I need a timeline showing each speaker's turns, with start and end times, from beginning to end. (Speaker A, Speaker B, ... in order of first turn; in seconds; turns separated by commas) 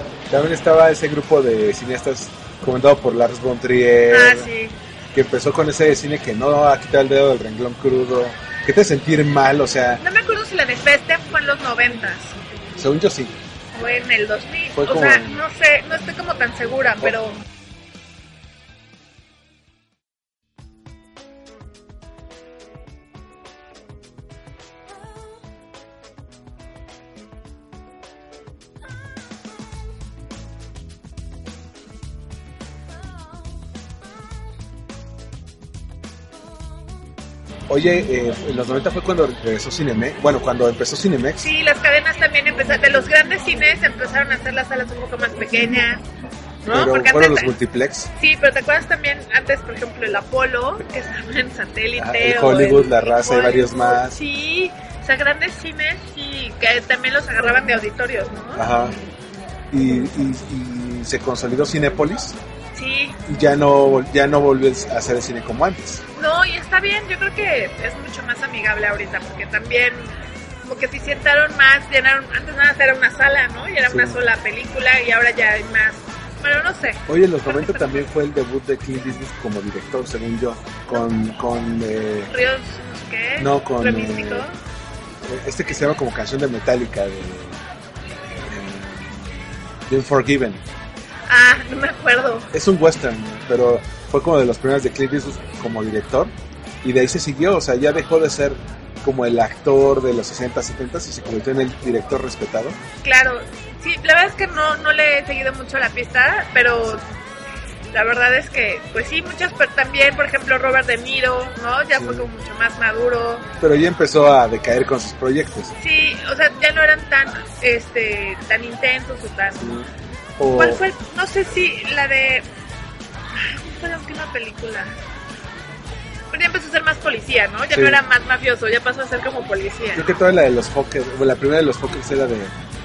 Speaker A: 0.3-4.5, Speaker B: 4.1-4.8, Speaker A: 5.1-10.0, Speaker B: 10.0-12.4, Speaker A: 12.8-13.3, Speaker B: 13.7-17.4, Speaker A: 14.7-15.4, Speaker A: 37.7-41.5, Speaker B: 41.4-46.0, Speaker B: 46.6-47.5, Speaker A: 46.7-48.1, Speaker B: 48.1-58.6, Speaker A: 52.0-54.2, Speaker A: 58.5-59.0, Speaker A: 59.7-62.4, Speaker B: 62.7-63.2, Speaker A: 63.2-66.0, Speaker B: 66.1-78.0, Speaker A: 73.9-74.2, Speaker A: 77.1-82.3, Speaker B: 82.3-84.5, Speaker A: 83.4-84.5, Speaker A: 85.2-87.6, Speaker A: 88.3-90.6, Speaker B: 91.3-92.5, Speaker A: 92.5-102.8, Speaker B: 103.0-107.0, Speaker B: 107.9-113.5, Speaker A: 111.9-112.3, Speaker A: 113.6-115.7, Speaker B: 115.8-119.7, Speaker A: 119.5-120.8, Speaker B: 120.5-122.5, Speaker B: 123.3-125.0, Speaker B: 126.3-130.0, Speaker A: 127.7-128.0, Speaker A: 129.9-132.5